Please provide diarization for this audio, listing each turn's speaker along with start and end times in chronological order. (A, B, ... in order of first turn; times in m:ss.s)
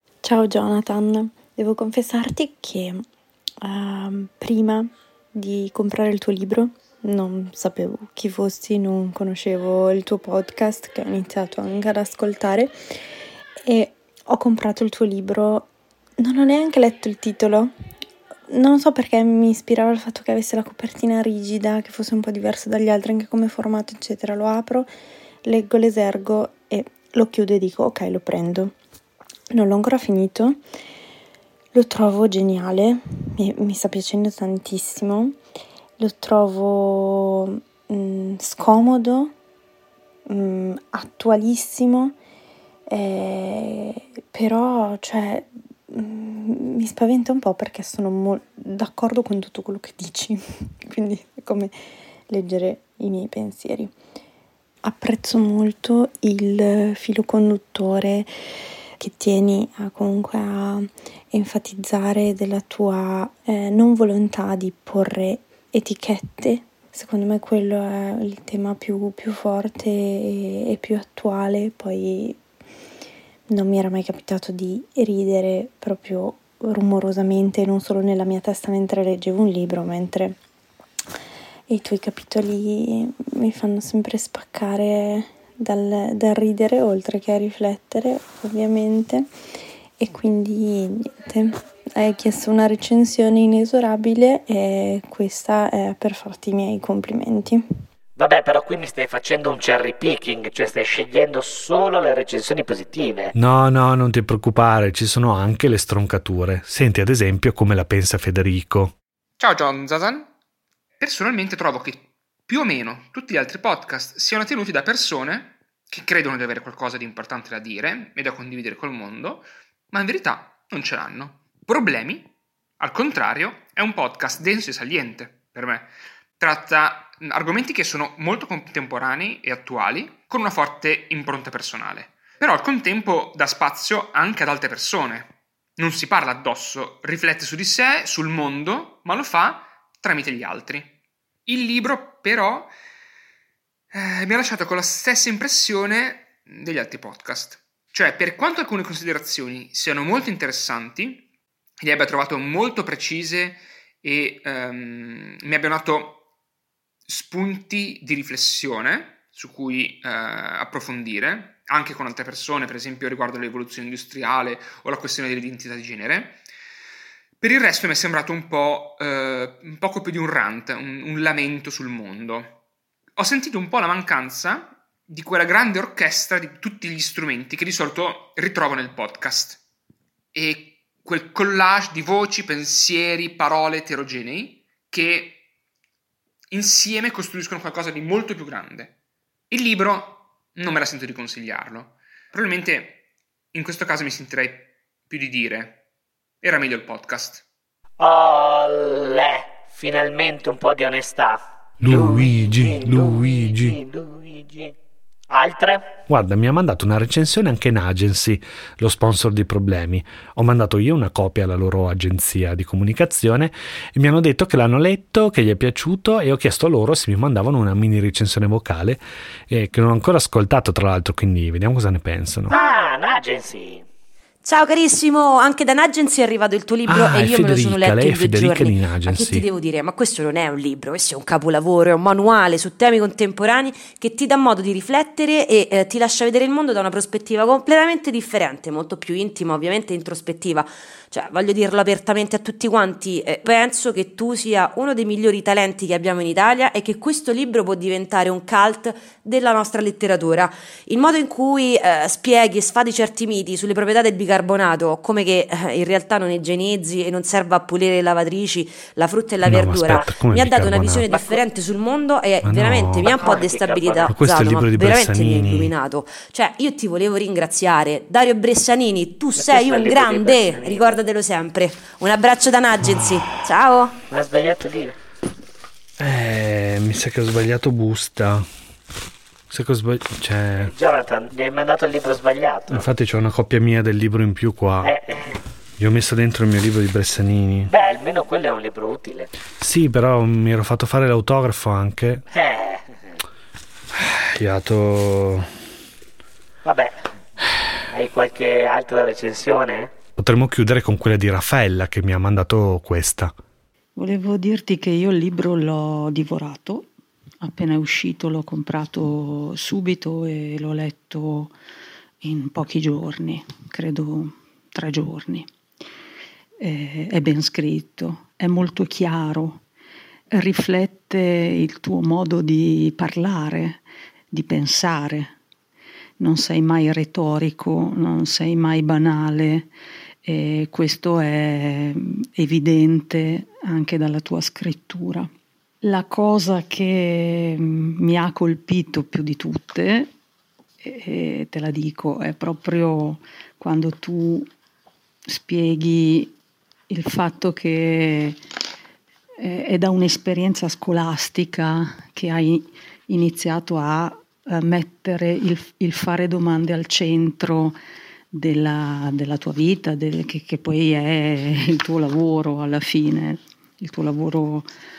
0:00.2-0:03.0 A
0:03.6-0:12.8 A
0:13.6-0:17.7 A
0:18.5-0:24.9 A
0:25.4-0:28.7 A
0:29.5-0:30.6 A
0:31.7-0:35.4 A
0:36.0-0:39.3 A
0:40.3-0:42.2 A
0:42.9-0:51.8 A
0:52.3-0:53.9 A
0:54.8-0:58.3 A
0:59.0-1:12.4 A
1:13.5-1:20.4 A
1:21.7-1:29.3 A
1:30.0-1:37.6 A
1:38.2-1:43.3 B
1:43.3-1:48.9 C
1:49.4-1:50.3 D
1:51.0-2:20.9 D
2:21.5-2:22.7 D
2:23.9-2:31.2 D
2:31.8-2:36.2 D
2:37.1-2:46.4 D
2:47.4-2:52.5 D
2:53.2-2:59.6 D
3:00.3-3:05.4 D
3:06.5-3:08.9 D
3:09.5-3:13.0 D
3:13.5-3:15.8 D
3:16.4-3:17.4 D
3:18.0-3:24.7 B
3:21.8-3:23.8 C
3:25.3-3:25.9 B
3:26.1-3:42.6 C
3:42.5-3:43.8 B
3:44.4-4:34.0 E
3:46.9-3:49.4 C
4:19.4-4:21.1 C
4:21.1-4:21.4 B
4:22.4-4:23.1 C
4:23.0-4:24.2 B
4:24.1-4:25.7 C
4:29.4-4:31.0 B
4:32.8-4:33.2 C
4:34.1-4:35.0 B
4:36.0-4:38.5 C
4:39.5-4:40.7 C
4:40.6-4:42.8 B
4:42.7-4:45.0 C
4:44.8-4:45.4 B
4:45.8-4:47.7 C
4:47.7-4:49.3 B
4:49.6-4:52.2 C
4:52.3-4:53.2 B
4:53.9-4:55.5 C
4:56.6-4:57.0 B
4:57.9-4:59.9 B
5:00.2-5:03.3 C
5:04.0-5:06.9 F
5:07.4-5:11.5 F
5:12.2-5:15.5 F
5:16.6-5:19.6 F
5:20.3-5:25.3 F
5:26.2-5:29.7 F
5:30.2-5:35.3 F
5:35.8-5:40.1 F
5:40.8-5:44.5 F
5:45.2-5:46.3 F
5:46.9-5:48.4 F
5:49.4-5:57.8 F
5:58.3-6:04.7 F